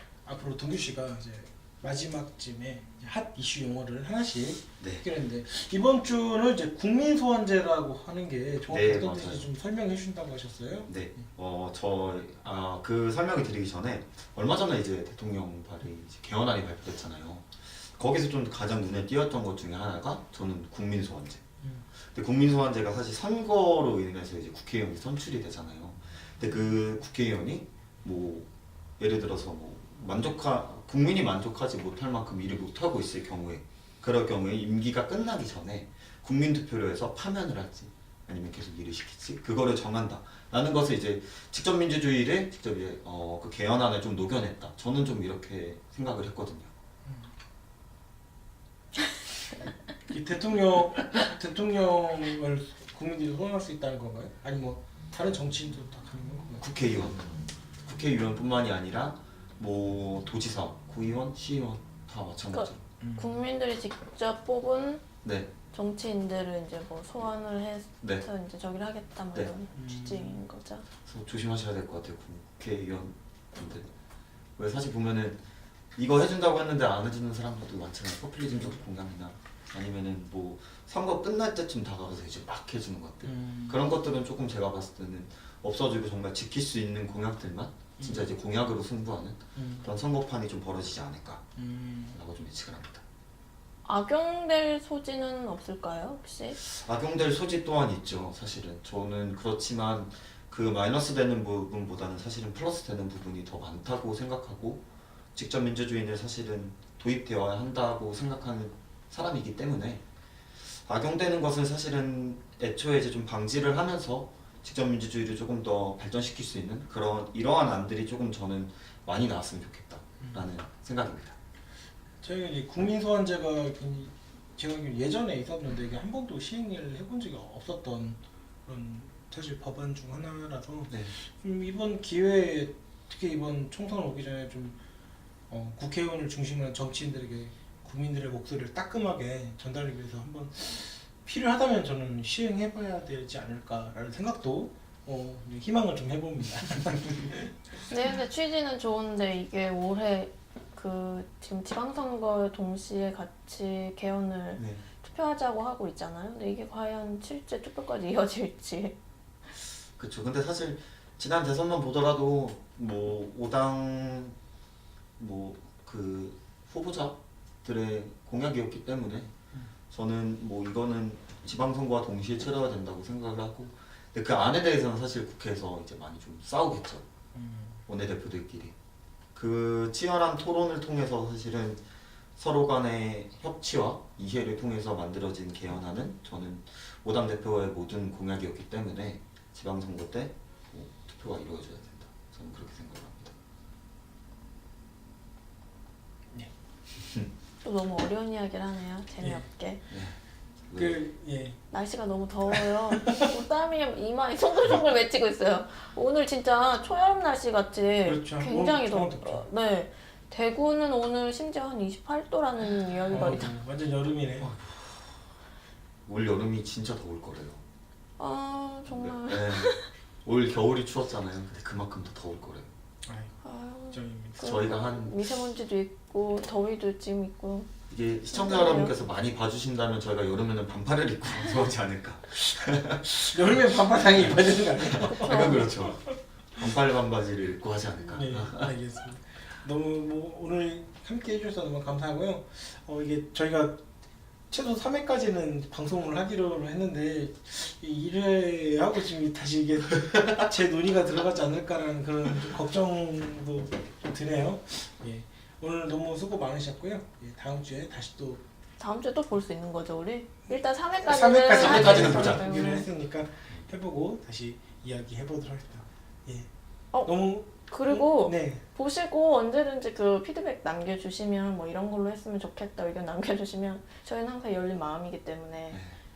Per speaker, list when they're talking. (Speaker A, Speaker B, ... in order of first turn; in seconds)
Speaker A: 0.2-11.2, 50.1-56.6, 63.0-63.4, 69.7-70.4, 83.2-83.8, 88.0-88.3, 89.5-89.8, 91.6-92.2, 120.2-120.5, 122.2-134.8, 135.5-147.5, 177.3-177.8, 200.7-201.6, 202.5-203.3, 208.0-209.4, 213.1-214.5, 223.0-224.6, 233.1-236.2, 238.1-243.8, 244.5-258.4, 261.0-266.5, 267.0-268.6
Speaker B: 8.7-9.5, 10.9-21.4, 22.0-46.7, 56.6-62.8, 65.2-65.5, 71.0-73.9, 74.6-75.4, 76.0-91.4, 92.1-93.0, 96.6-104.8, 105.3-110.0, 110.7-121.4, 154.6-154.8, 160.0-164.4, 165.2-169.3, 169.9-177.1, 177.9-178.8, 179.3-181.8, 182.3-193.3, 199.9-200.2, 200.7-201.0, 214.4-215.1, 216.1-217.6, 218.9-222.7, 224.4-225.2, 227.9-233.6, 234.2-236.0, 236.6-238.7, 261.6-262.5, 275.7-276.0
Speaker C: 62.5-65.0, 65.7-70.8, 93.8-96.6, 147.9-158.9, 197.6-199.8, 201.7-213.5, 218.2-219.9, 223.4-227.7, 228.3-228.9, 235.1-235.7, 258.8-262.9, 266.9-275.8